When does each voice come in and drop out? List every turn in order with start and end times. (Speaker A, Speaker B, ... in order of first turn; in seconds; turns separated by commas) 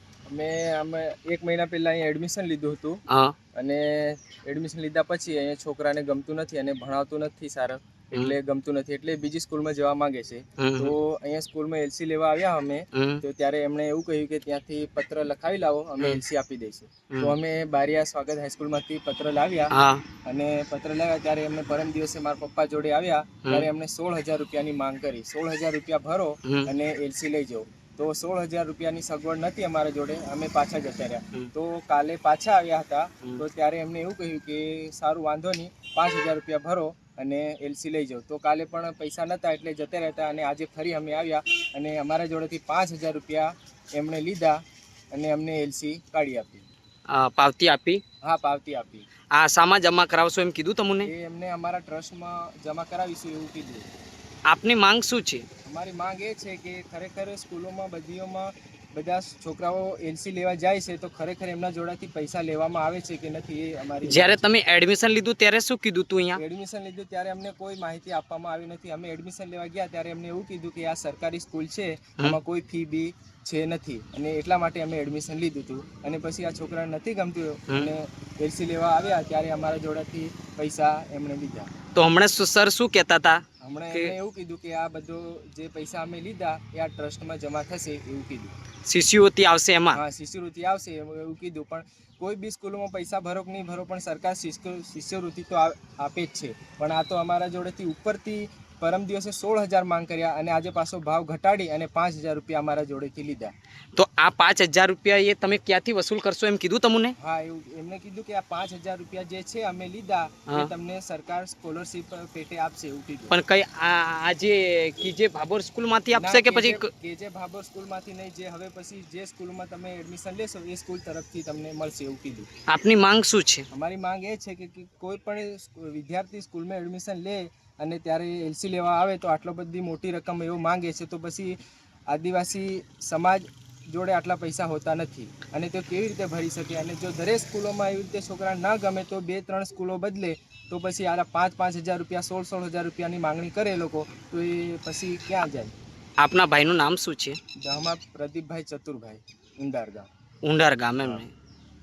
Speaker A: 0.3-3.0, Speaker B: 3.1-3.4, Speaker A: 3.6-19.7, Speaker B: 10.6-11.0, Speaker B: 12.9-13.2, Speaker B: 19.7-20.0, Speaker A: 20.2-44.6, Speaker A: 45.1-46.7, Speaker B: 47.1-48.0, Speaker A: 48.2-49.1, Speaker B: 49.3-51.1, Speaker A: 51.0-53.9, Speaker B: 54.5-55.5, Speaker A: 55.7-64.4, Speaker B: 64.0-66.4, Speaker A: 66.3-81.7, Speaker B: 82.0-84.1, Speaker A: 83.6-88.5, Speaker B: 88.9-90.0, Speaker A: 89.9-103.5, Speaker B: 104.0-107.1, Speaker A: 107.2-113.4, Speaker B: 113.3-116.9, Speaker A: 116.1-122.5, Speaker B: 122.7-123.7, Speaker A: 123.7-131.6, Speaker A: 132.1-145.7, Speaker B: 146.2-147.4, Speaker A: 147.6-150.1, Speaker B: 150.4-151.3